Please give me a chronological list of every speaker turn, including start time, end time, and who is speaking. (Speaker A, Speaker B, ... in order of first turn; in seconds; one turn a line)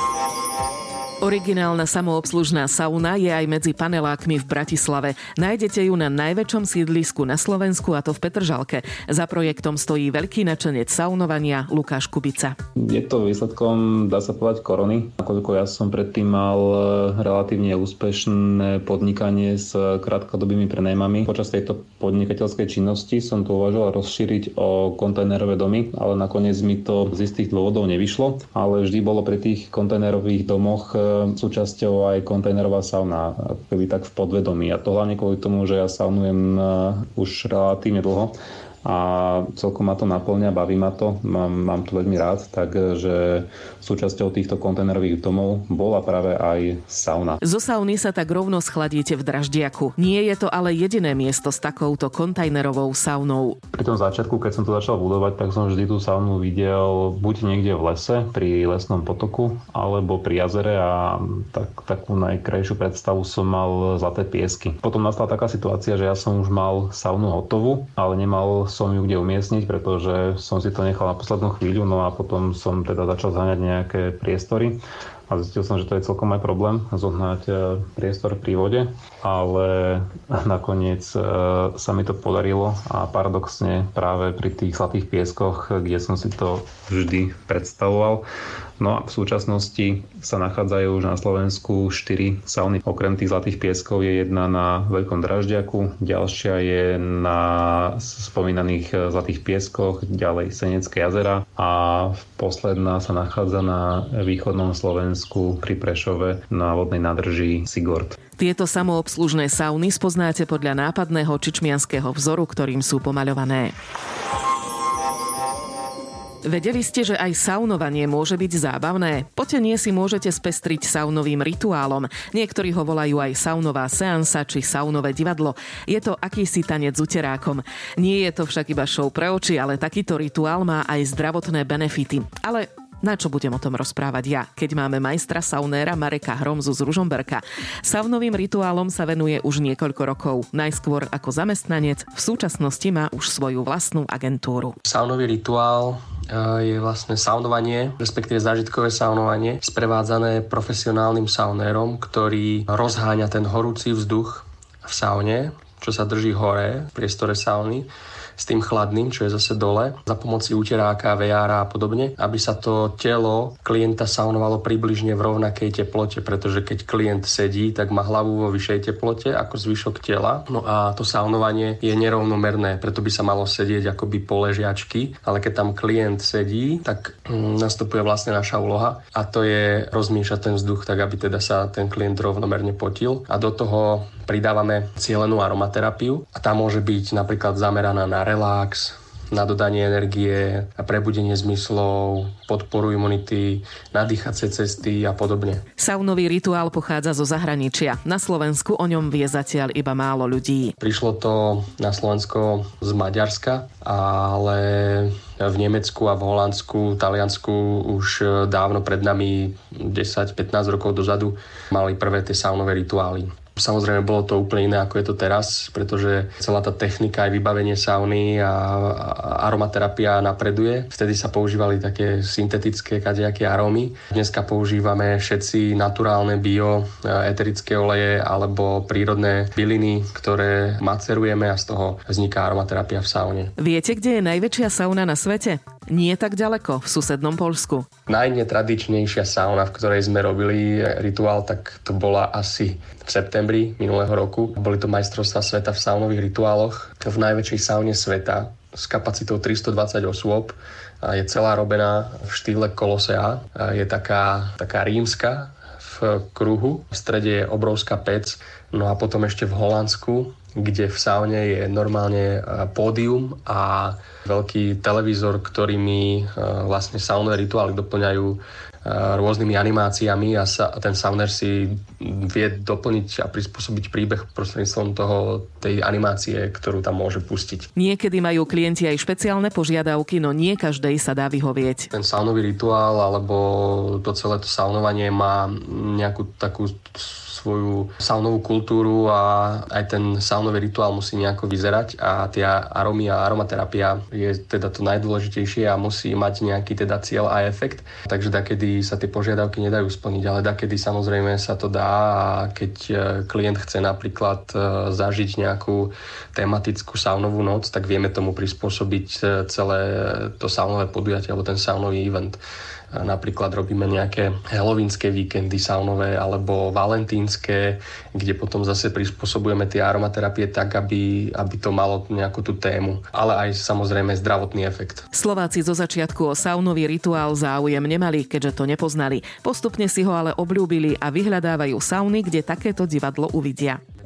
Speaker A: 1.2-12.6
Speaker B: 12.9-47.4
Speaker A: 47.4-53.6
Speaker B: 53.7-88.2
Speaker B: 88.8-108.2
Speaker A: 108.4-113.7
Speaker A: 116.4-144.8
Speaker C: 144.9-195.6
Speaker A: 195.8-200.8
Speaker C: 200.8-233.5
Speaker A: 233.6-237.9
Speaker C: 238.1-277.7
Speaker A: 277.8-281.9
Speaker C: 281.9-312.4
Speaker C: 312.9-325.1
Speaker A: 325.1-333.8